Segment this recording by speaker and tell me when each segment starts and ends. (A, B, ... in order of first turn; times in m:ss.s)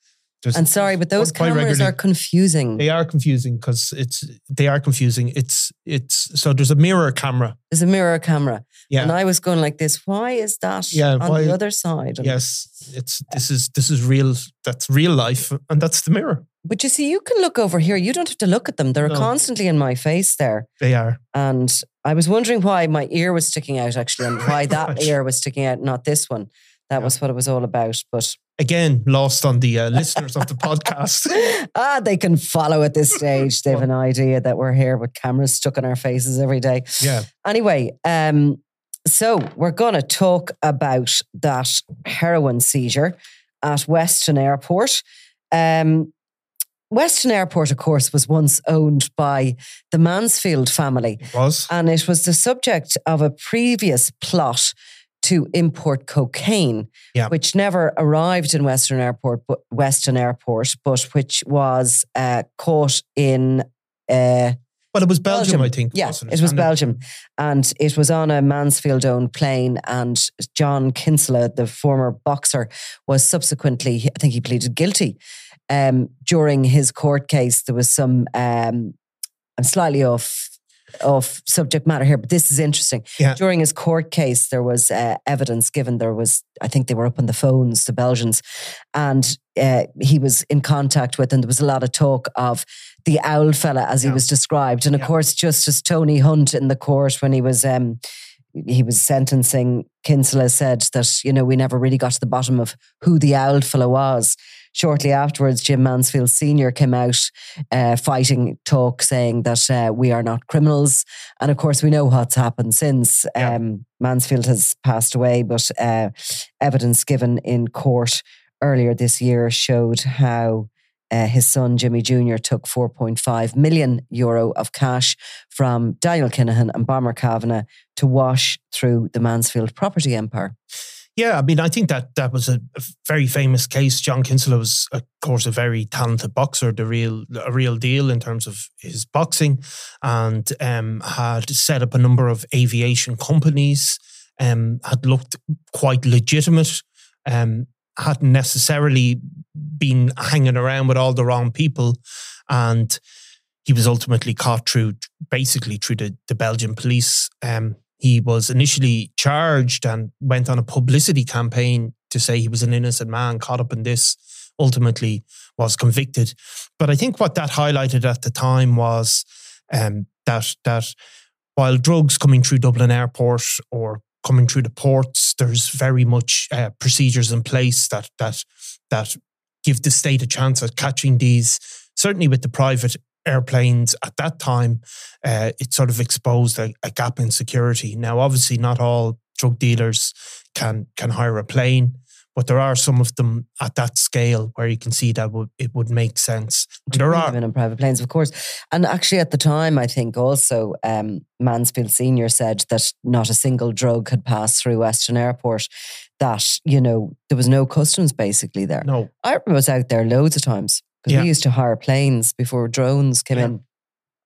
0:00.4-0:02.0 A
0:00.5-0:02.8 B
0:02.8-0:07.6 A
0:07.7-0:12.4 B
0:10.9-0:11.6 A
0:12.2-0:16.5 A
0:16.6-0:20.7 B
0:20.8-0:21.2 A
0:21.3-0:28.4 B
0:24.7-0:25.1 A
0:28.6-0:31.5 A
0:31.3-0:46.1 B
0:37.0-0:37.3 A
0:46.9-1:04.6 B
0:51.2-0:51.7 A
1:04.9-1:06.8 A
1:05.3-1:15.2 B
1:15.7-1:19.0 B
1:19.6-1:28.4 B
1:28.9-1:38.0 B
1:38.6-2:10.6 B
2:11.2-2:33.0 A
2:33.6-2:50.9 A
2:51.6-3:17.4 A
3:16.9-3:25.7 B
3:26.2-3:33.6 B
3:28.8-3:29.1 A